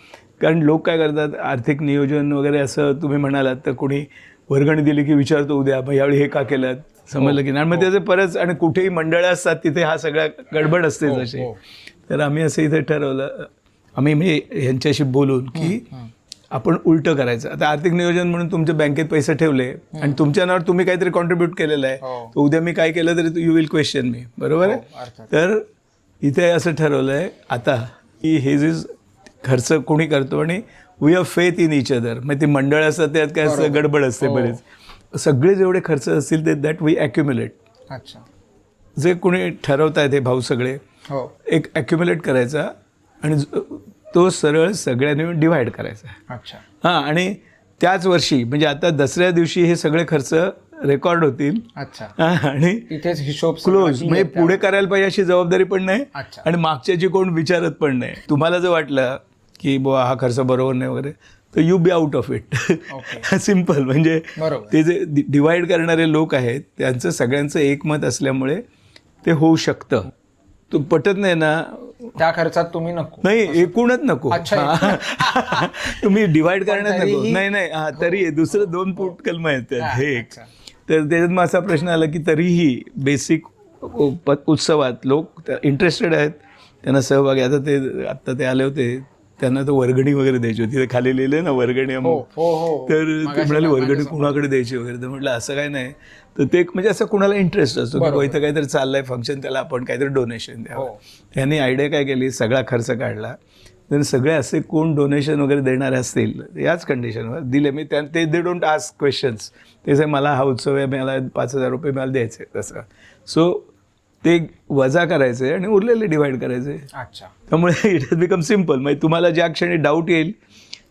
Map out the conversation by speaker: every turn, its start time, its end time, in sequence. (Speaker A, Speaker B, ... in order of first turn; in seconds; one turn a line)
Speaker A: 0.4-11.5
Speaker B: 7.2-7.9
Speaker B: 11.0-11.6
Speaker A: 12.1-15.9
Speaker B: 15.5-16.1
Speaker A: 16.5-25.6
Speaker B: 19.9-20.2
Speaker B: 22.0-22.3
Speaker B: 24.6-25.3
Speaker A: 26.2-28.9
Speaker A: 29.4-37.5
Speaker B: 33.4-34.6
Speaker B: 37.9-38.2
Speaker A: 39.0-40.8
Speaker A: 41.5-46.2
Speaker B: 46.3-46.6
Speaker A: 46.8-51.6
Speaker B: 51.8-52.1
Speaker A: 52.2-52.9
Speaker B: 52.9-54.6
Speaker A: 53.6-68.6
Speaker B: 56.1-56.5
Speaker B: 62.9-63.3
Speaker B: 64.4-64.7
Speaker A: 69.2-70.1
Speaker A: 70.7-72.2
Speaker B: 72.2-73.7
Speaker A: 73.2-80.3
Speaker B: 74.3-79.1
Speaker B: 79.8-80.5
Speaker A: 80.9-92.2
Speaker B: 92.0-94.4
Speaker A: 92.9-103.3
Speaker B: 98.0-98.3
Speaker A: 103.9-113.7
Speaker A: 114.2-116.9
Speaker B: 116.9-117.3
Speaker A: 117.5-120.3